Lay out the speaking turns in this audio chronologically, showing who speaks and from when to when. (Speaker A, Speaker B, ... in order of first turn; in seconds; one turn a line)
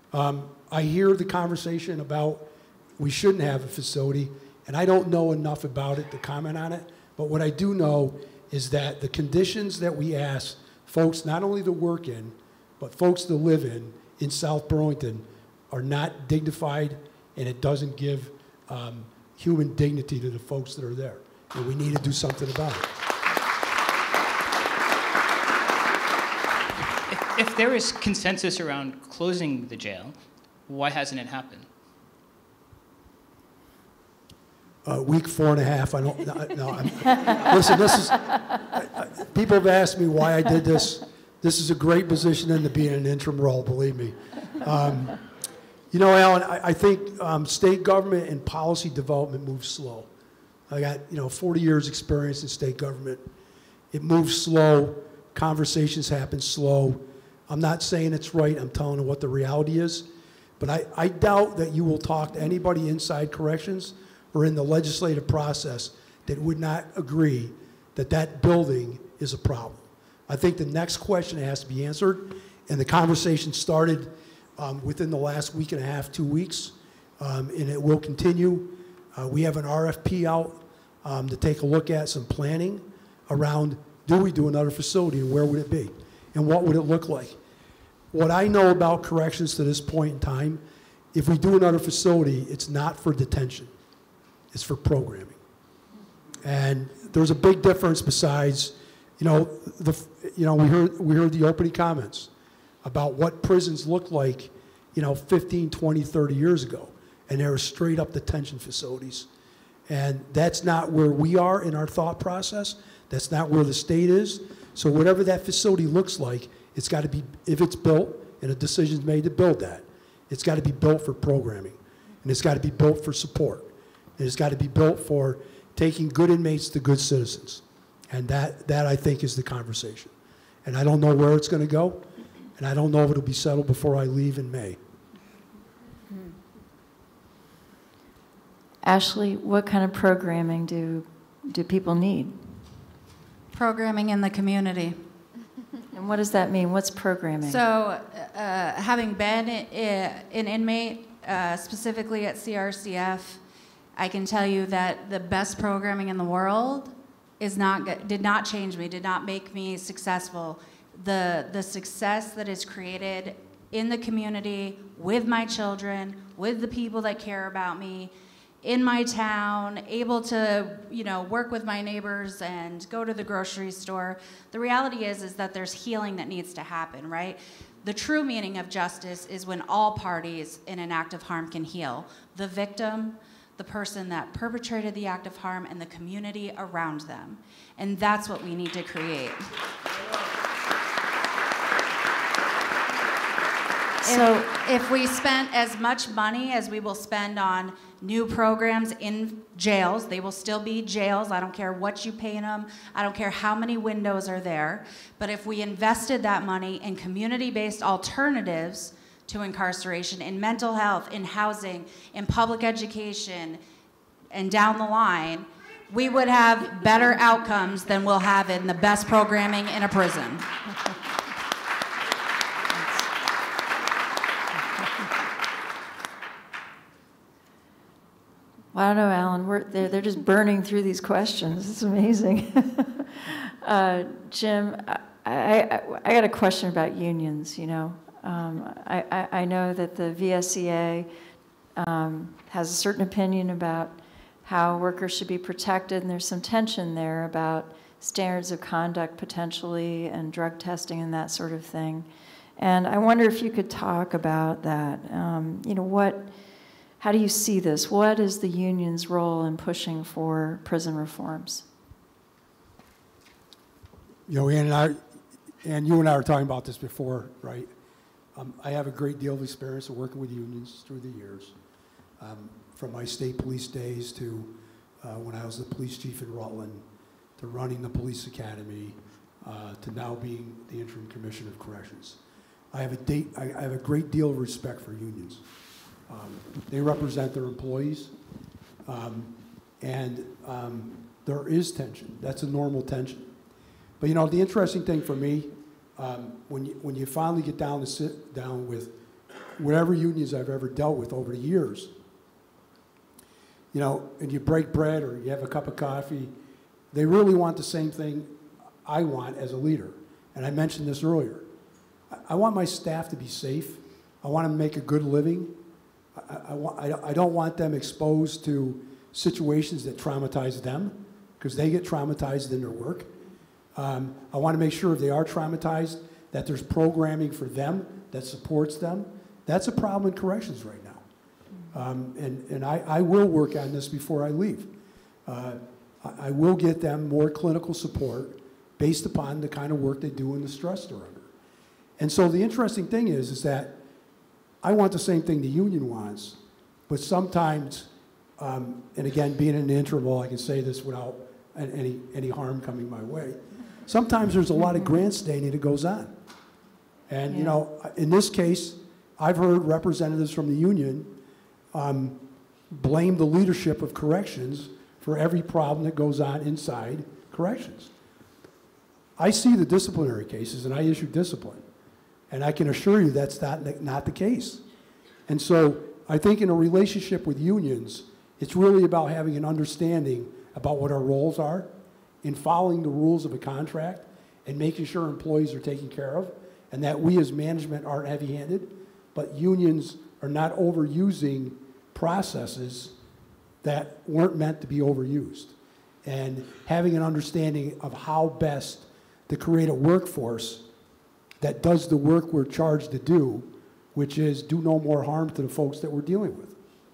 Speaker A: 0.1-23.0
Speaker B: 27.1-30.1
Speaker B: 30.7-31.7
Speaker A: 34.8-45.2
Speaker A: 45.9-50.1
Speaker A: 50.7-53.3
Speaker A: 53.9-87.4
Speaker A: 88.1-93.7
Speaker A: 94.5-95.4
Speaker A: 96.4-102.3
Speaker A: 102.8-109.3
Speaker A: 109.9-130.1
Speaker A: 130.6-134.8
Speaker C: 138.8-142.4
Speaker D: 143.5-145.1
Speaker C: 145.9-147.6
Speaker D: 147.4-153.4
Speaker D: 153.9-189.5
Speaker C: 194.0-194.4
Speaker D: 194.0-213.6
Speaker D: 214.3-220.5
Speaker C: 228.7-241.1
Speaker C: 241.8-252.1
Speaker C: 252.6-256.3
Speaker C: 257.0-261.6
Speaker A: 264.3-265.0
Speaker A: 265.6-267.7
Speaker A: 268.3-271.6
Speaker A: 272.2-276.9
Speaker A: 277.4-282.2
Speaker A: 282.7-285.4
Speaker A: 286.1-288.1
Speaker A: 288.8-293.3
Speaker A: 294.0-299.0
Speaker A: 299.5-301.9
Speaker A: 303.7-306.3
Speaker A: 306.9-311.5
Speaker A: 312.1-315.6
Speaker A: 316.1-323.1
Speaker A: 323.7-331.0
Speaker A: 331.7-334.7
Speaker A: 335.2-341.3
Speaker A: 342.0-343.8
Speaker A: 344.6-356.2
Speaker C: 354.6-355.0
Speaker A: 357.1-361.2
Speaker C: 357.3-357.6
Speaker A: 361.7-367.9
Speaker A: 369.2-371.6
Speaker A: 372.3-374.6
Speaker A: 375.3-393.0
Speaker A: 393.6-400.7
Speaker A: 401.4-406.6